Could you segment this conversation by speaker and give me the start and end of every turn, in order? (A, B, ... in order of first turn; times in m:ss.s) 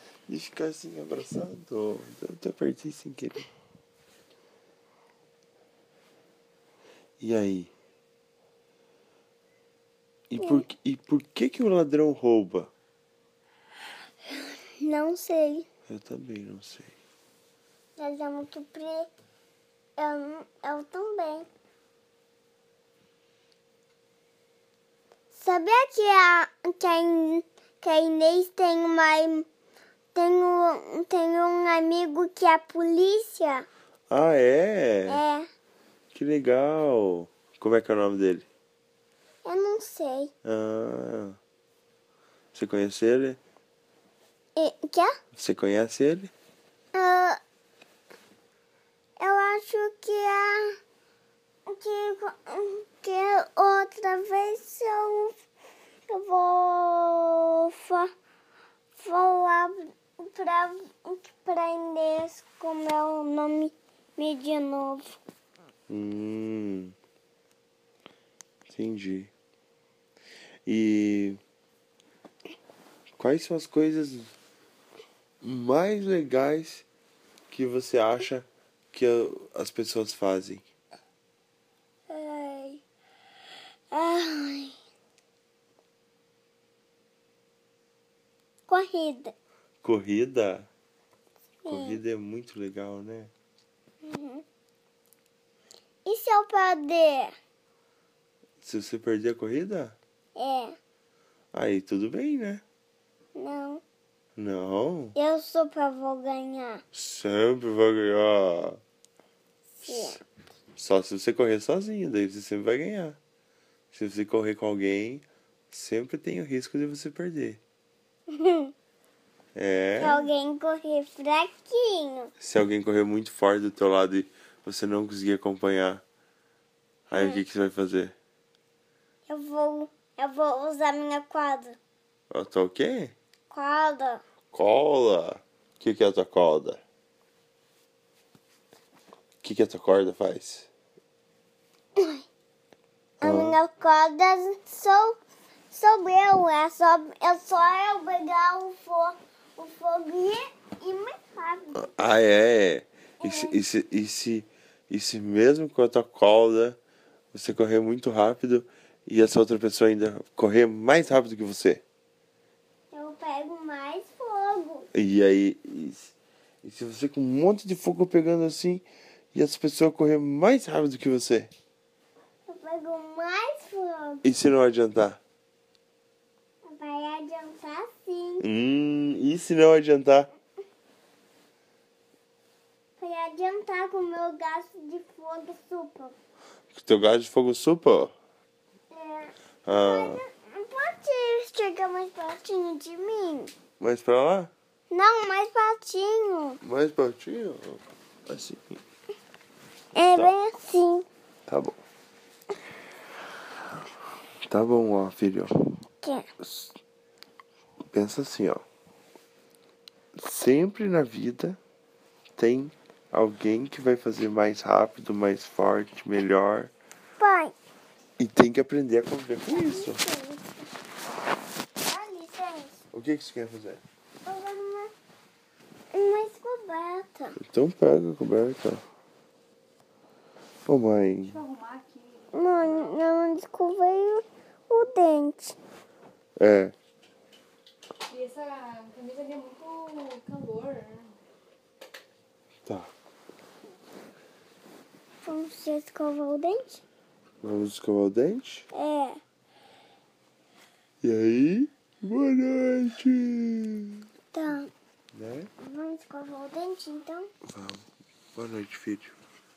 0:00.3-0:03.5 A
0:07.2-0:07.7 A
0:10.3-0:12.7 A
0:14.2-0:15.7 B
0:15.9-0:16.9 A
0:18.0-0:19.1 B
0:20.0-0:21.5 B
0:25.3-0:29.5 B
0:30.2-0:33.7 B
0:34.1-0:35.2 A
0:35.1-0:35.5 B
0:36.1-0:38.5 A
0:39.4-0:40.3 B
0:40.4-0:41.4 A
0:42.5-0:43.4 A
0:44.6-0:45.1 B
0:45.3-0:46.3 A
0:46.9-0:47.4 B
0:49.2-0:50.8 B
0:51.7-0:55.4 B
0:56.1-0:58.1 B
0:59.0-1:05.2 B
1:05.9-1:07.0 A
1:08.7-1:09.3 A
1:10.7-1:11.4 A
1:13.2-1:14.3 A
1:15.4-1:16.8 A
1:17.5-1:20.6 A
1:22.1-1:22.8 B
1:23.9-1:24.7 B
1:28.7-1:29.3 B
1:29.8-1:30.7 A
1:31.6-1:32.0 B
1:31.7-1:33.3 A
1:34.0-1:34.4 B
1:36.0-1:37.3 B
1:38.6-1:40.0 A
1:40.4-1:40.8 B
1:41.5-1:42.6 A
1:43.4-1:43.8 B
1:44.4-1:45.2 A
1:45.2-1:46.8 B
1:46.9-1:48.8 A
1:49.8-1:50.2 B
1:49.9-1:50.1 A
1:50.8-1:53.2 A
1:53.9-1:57.6 A
1:58.3-1:58.7 B
1:59.6-2:00.3 A
2:00.0-2:02.3 B
2:02.4-2:06.0 A
2:07.1-2:08.2 A
2:07.1-2:07.4 B
2:09.3-2:11.8 B
2:12.3-2:13.2 A
2:13.5-2:14.2 B
2:14.5-2:16.8 A
2:19.4-2:20.7 A
2:22.0-2:22.3 B
2:23.2-2:23.6 A
2:23.2-2:25.2 B
2:25.7-2:31.9 B
2:31.8-2:36.8 A
2:33.2-2:33.6 B
2:37.3-2:41.8 A
2:42.9-2:44.9 B
2:44.9-2:51.5 A
2:52.5-2:54.2 B
2:54.2-2:55.2 A
2:56.7-2:58.4 B
2:58.4-3:00.3 A
3:03.0-3:06.2 B
3:06.7-3:08.1 A
3:08.9-3:13.5 B
3:09.7-3:10.2 A
3:13.8-3:14.5 A
3:14.9-3:16.6 B
3:16.6-3:18.8 A
3:20.0-3:21.1 B
3:21.5-3:21.8 A
3:24.5-3:25.5 A
3:26.0-3:26.3 B
3:26.4-3:26.7 A
3:27.9-3:28.6 A
3:30.2-3:31.6 A
3:32.4-3:36.7 A
3:37.2-3:37.5 B
3:38.2-3:40.0 A
3:39.5-3:40.7 B
3:41.8-3:42.8 B
3:42.9-3:43.8 A
3:44.2-3:44.9 B
3:45.9-3:47.4 B
3:47.4-3:48.8 A
3:50.7-3:51.4 A
3:52.3-3:55.6 B
3:56.4-3:56.7 A
3:58.1-4:01.0 C
4:02.7-4:02.9 A
4:05.2-4:06.8 B
4:07.4-4:08.7 A
4:08.7-4:09.2 B
4:11.0-4:14.1 A
4:14.3-4:14.7 B
4:15.1-4:15.5 A
4:15.6-4:17.3 B
4:17.5-4:19.1 A